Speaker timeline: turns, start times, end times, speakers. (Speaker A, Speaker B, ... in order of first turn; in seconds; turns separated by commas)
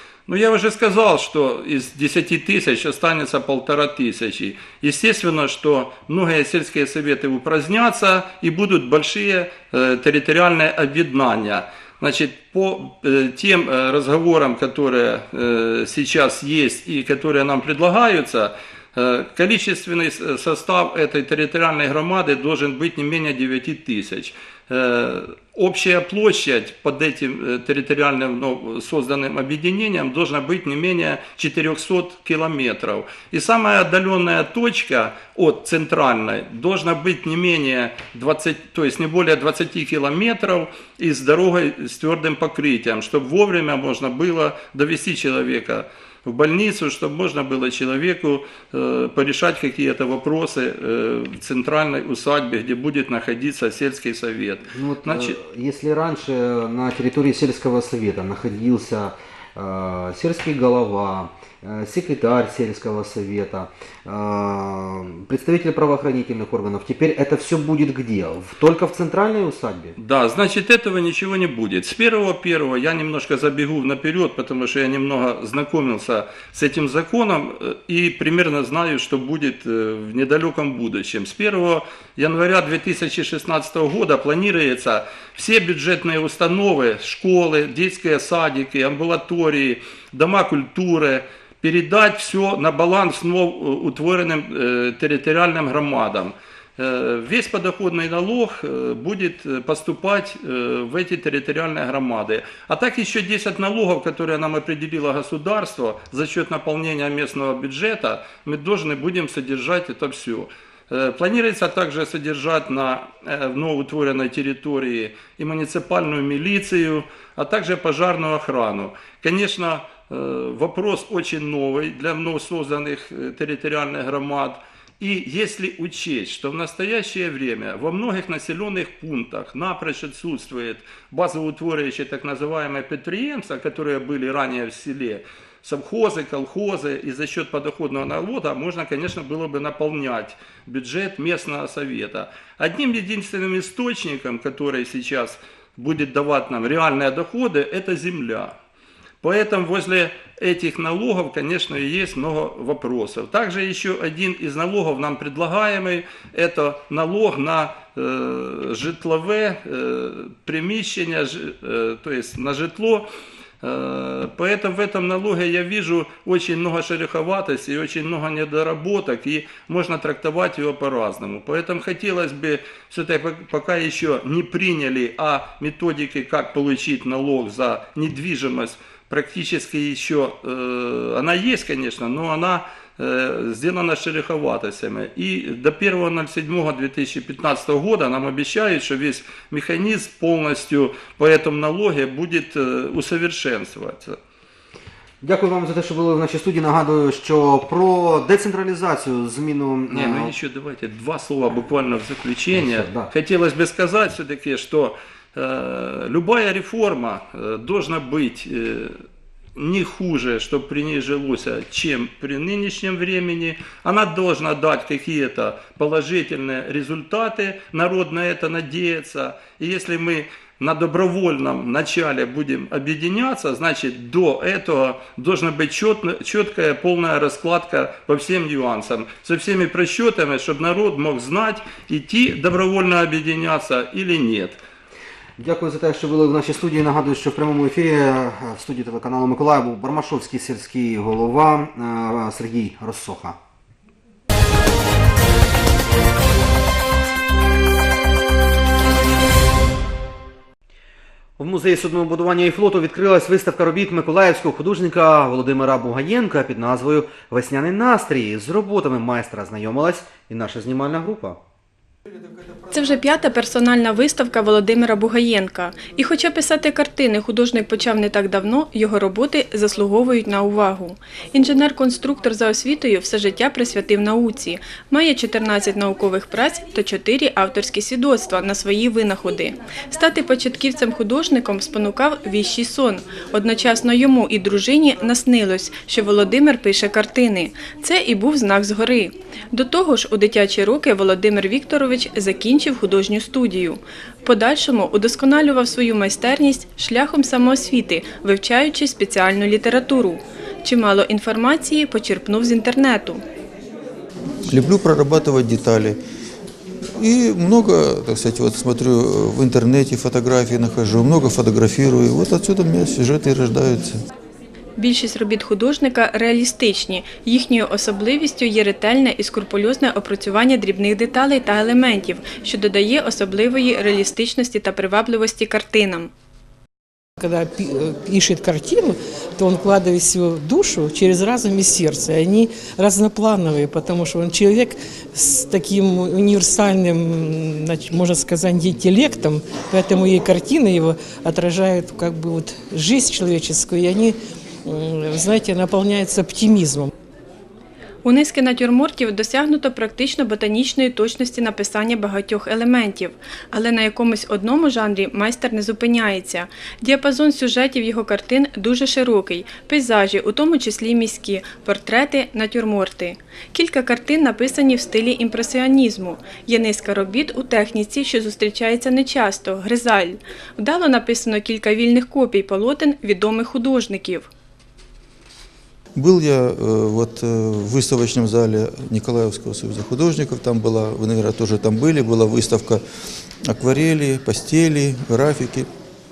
Speaker A: 0.3-55.4, Speaker B: 54.7-69.9, Speaker A: 70.0-148.5, Speaker A: 149.2-163.1, Speaker A: 163.6-194.2, Speaker B: 195.2-200.3, Speaker A: 199.9-209.0, Speaker B: 202.5-203.1, Speaker A: 209.5-234.6, Speaker B: 235.4-243.4, Speaker B: 251.4-261.4, Speaker C: 262.7-303.2, Speaker D: 304.4-306.0, Speaker D: 306.9-314.0, Speaker C: 314.8-326.1, Speaker E: 327.2-346.9, Speaker C: 348.0-374.3, Speaker D: 375.9-382.8, Speaker D: 383.5-385.7